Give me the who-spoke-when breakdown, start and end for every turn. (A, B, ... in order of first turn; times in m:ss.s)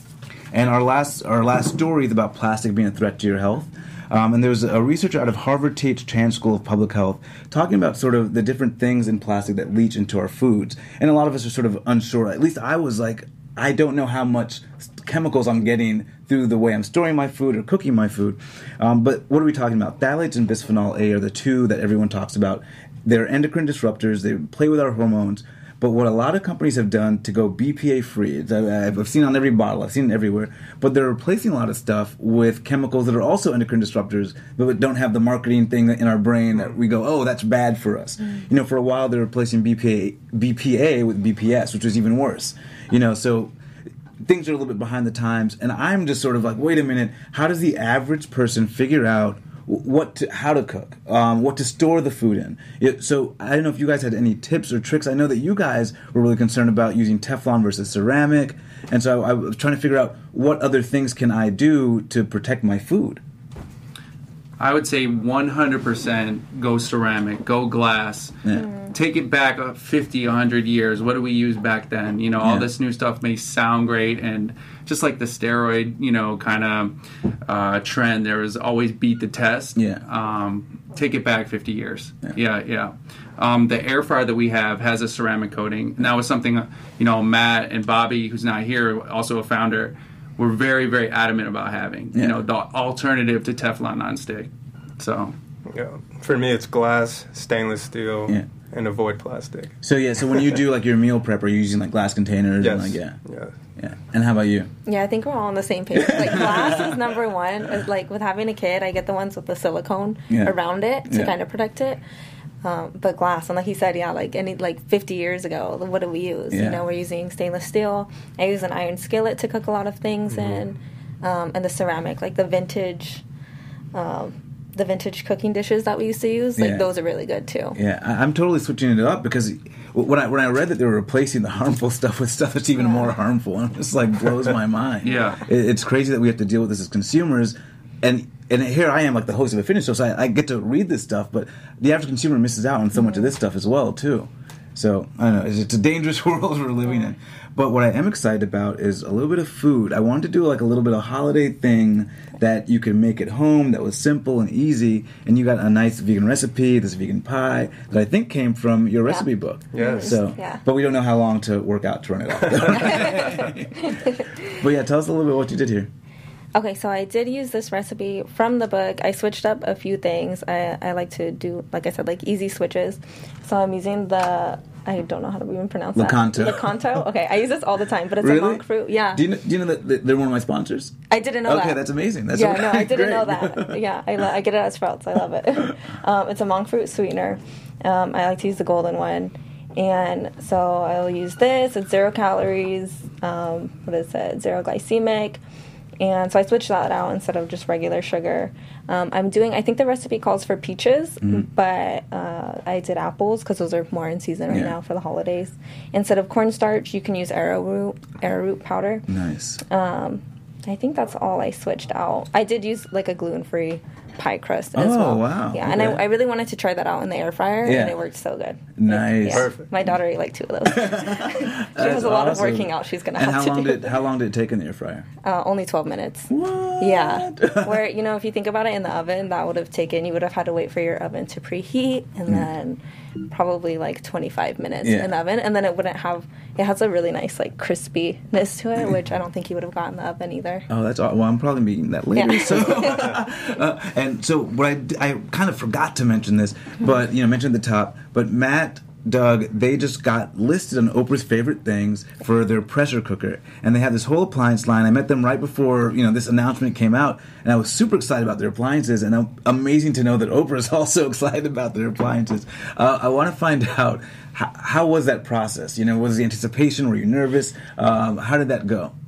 0:00.5-0:43.5 A
0:44.2-1:03.2 A
1:04.6-1:08.4 B
1:08.6-1:08.9 C
1:08.9-1:16.9 B
1:12.4-1:12.7 A
1:17.4-1:35.3 B
1:19.8-1:20.0 A
1:35.7-1:39.8 D
1:39.8-1:43.2 A
1:42.6-1:43.5 D
1:43.8-1:44.7 A
1:44.8-1:52.0 C
1:46.0-1:47.0 A
1:51.1-1:51.3 A
1:52.6-2:03.2 C
1:56.5-1:56.8 A
2:03.9-2:07.8 C
2:06.6-2:06.9 A
2:07.7-2:45.9 A
2:12.8-2:13.1 C
2:15.0-2:15.4 C
2:15.0-2:15.4 B
2:23.0-2:23.3 C
2:39.0-2:40.6 C
2:39.7-2:40.2 D
2:42.8-2:44.3 C
2:46.5-2:59.2 C
2:56.0-2:57.1 A
2:58.2-3:03.8 A
3:01.1-3:15.4 C
3:16.0-3:29.0 C
3:21.2-3:21.5 A
3:24.5-3:24.7 A
3:29.1-3:29.6 A
3:29.6-3:43.9 C
3:34.7-3:36.0 A
3:37.6-3:38.0 A
3:38.8-3:39.5 A
3:39.3-3:39.7 D
3:40.6-3:45.0 A
3:45.2-3:52.8 C
3:46.3-3:47.8 A
3:53.3-4:00.7 C
3:54.8-3:55.1 A
4:00.7-4:28.9 A
4:02.1-4:03.2 C